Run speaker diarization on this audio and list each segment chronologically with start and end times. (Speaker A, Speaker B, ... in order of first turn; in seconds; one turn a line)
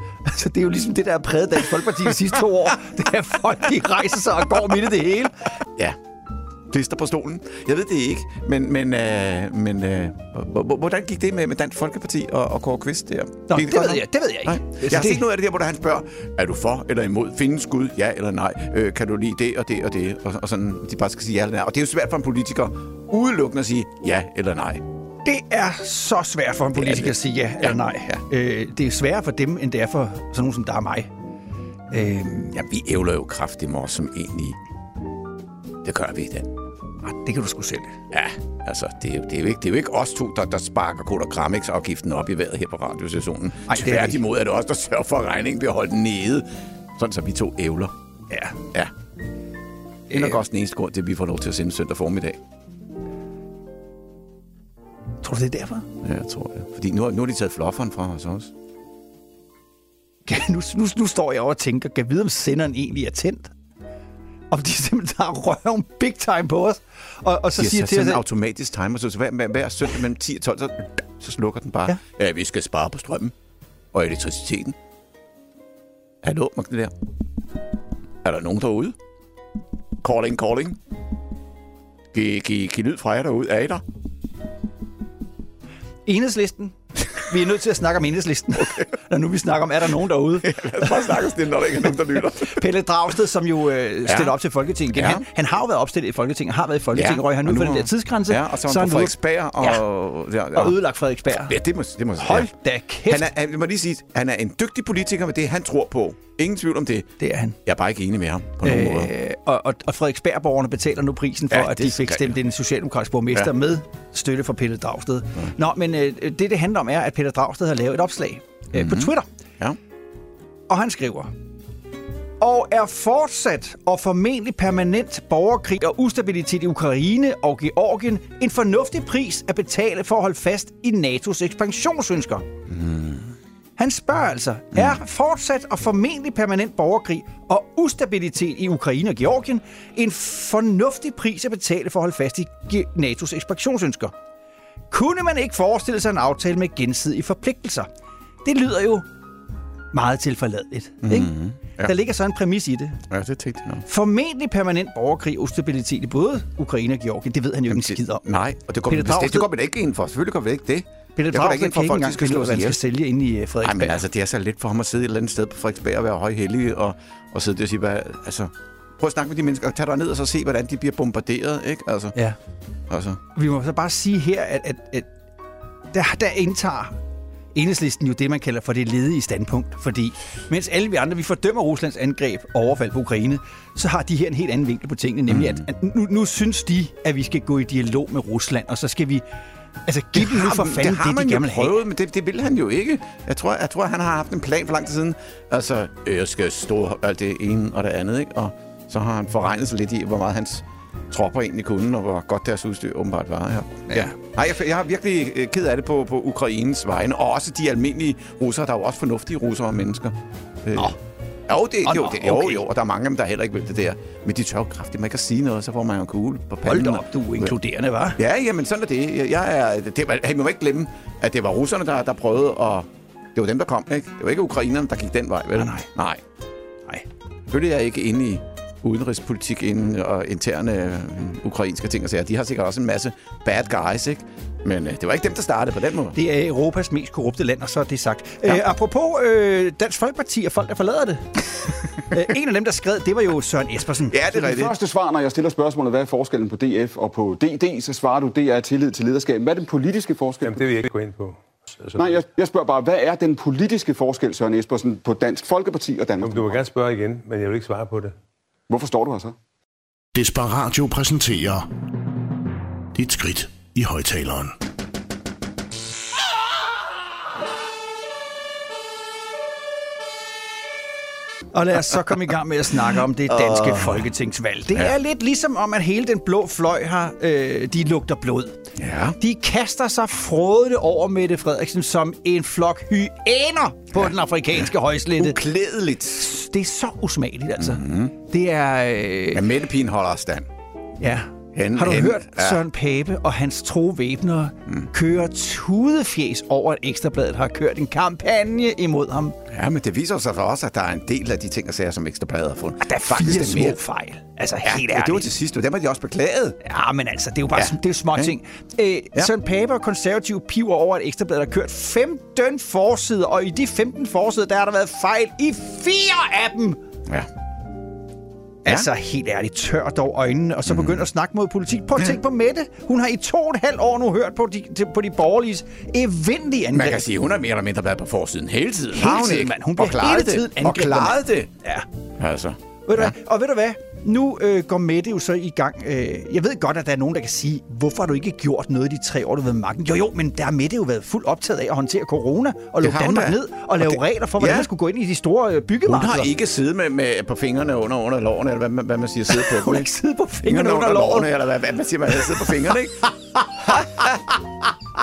Speaker A: 0.2-5.5
Speaker B: 6.7-24.8
Speaker A: 13.5-15.3
Speaker A: 25.2-31.1
Speaker B: 26.7-28.2
Speaker A: 31.9-32.6
Speaker B: 32.5-34.6
Speaker B: 35.8-36.5
Speaker A: 37.0-38.0
Speaker B: 38.1-47.9
Speaker A: 43.7-44.2
Speaker A: 48.3-48.6
Speaker A: 50.1-50.4
Speaker B: 50.1-52.4
Speaker A: 55.2-55.9
Speaker B: 56.0-58.5
Speaker A: 60.3-63.5
Speaker A: 64.5-68.2
Speaker B: 67.5-73.3
Speaker B: 73.9-74.8
Speaker B: 76.2-76.9
Speaker B: 78.2-79.0
Speaker B: 80.0-80.8
Speaker B: 82.1-83.8
Speaker A: 86.1-91.1
Speaker B: 88.6-88.9
Speaker B: 90.4-92.6
Speaker A: 92.4-99.8
Speaker B: 94.1-94.3
Speaker B: 94.9-95.2
Speaker B: 96.9-100.8
Speaker A: 100.5-101.6
Speaker B: 101.3-102.5
Speaker A: 102.2-103.3
Speaker B: 103.1-107.1
Speaker A: 107.2-107.6
Speaker B: 107.7-109.1
Speaker A: 108.6-119.3
Speaker B: 111.5-112.4
Speaker B: 118.7-119.8
Speaker A: 120.7-121.3
Speaker A: 122.4-132.5
Speaker B: 132.7-133.3
Speaker A: 133.8-144.1
Speaker B: 134.7-135.0
Speaker A: 144.9-147.9
Speaker A: 148.4-149.1
Speaker A: 149.9-153.0
Speaker B: 151.0-151.9
Speaker B: 153.1-153.8
Speaker A: 153.9-158.2
Speaker B: 157.7-162.8
Speaker A: 158.9-159.5
Speaker A: 161.2-164.0
Speaker B: 163.6-172.2
Speaker B: 172.9-173.2
Speaker A: 173.3-175.1
Speaker A: 175.9-177.0
Speaker A: 177.6-189.2
Speaker B: 185.3-185.7
Speaker A: 189.9-191.8
Speaker B: 190.2-210.9
Speaker A: 203.9-204.2
Speaker B: 211.5-217.6
Speaker A: 211.8-212.6
Speaker A: 216.7-218.2
Speaker B: 218.2-226.2
Speaker A: 225.6-225.9
Speaker B: 227.5-236.2
Speaker A: 236.2-241.4
Speaker A: 242.1-244.2
Speaker B: 244.1-244.7
Speaker C: 244.3-250.9
Speaker D: 250.4-252.2
Speaker C: 251.9-256.6
Speaker D: 256.2-258.1
Speaker C: 258.7-259.4
Speaker E: 260.1-261.7
Speaker E: 262.9-264.6
Speaker A: 271.5-278.6
Speaker B: 273.3-274.0
Speaker B: 278.8-279.2
Speaker A: 279.2-285.4
Speaker B: 285.2-286.3
Speaker A: 286.2-289.4
Speaker B: 287.6-288.1
Speaker B: 289.3-290.5
Speaker A: 291.0-299.4
Speaker B: 291.5-292.6
Speaker B: 299.5-303.8
Speaker A: 302.8-305.3
Speaker B: 304.6-306.6
Speaker A: 306.6-316.8
Speaker B: 307.6-308.4
Speaker A: 318.6-327.0
Speaker B: 320.7-321.0
Speaker B: 326.7-331.5
Speaker A: 328.9-331.9
Speaker B: 332.2-333.1
Speaker A: 332.9-346.3
Speaker B: 342.8-344.7
Speaker B: 345.9-349.9
Speaker A: 349.3-351.3
Speaker B: 350.4-353.1
Speaker A: 352.3-352.8
Speaker A: 353.4-353.9
Speaker B: 353.6-354.6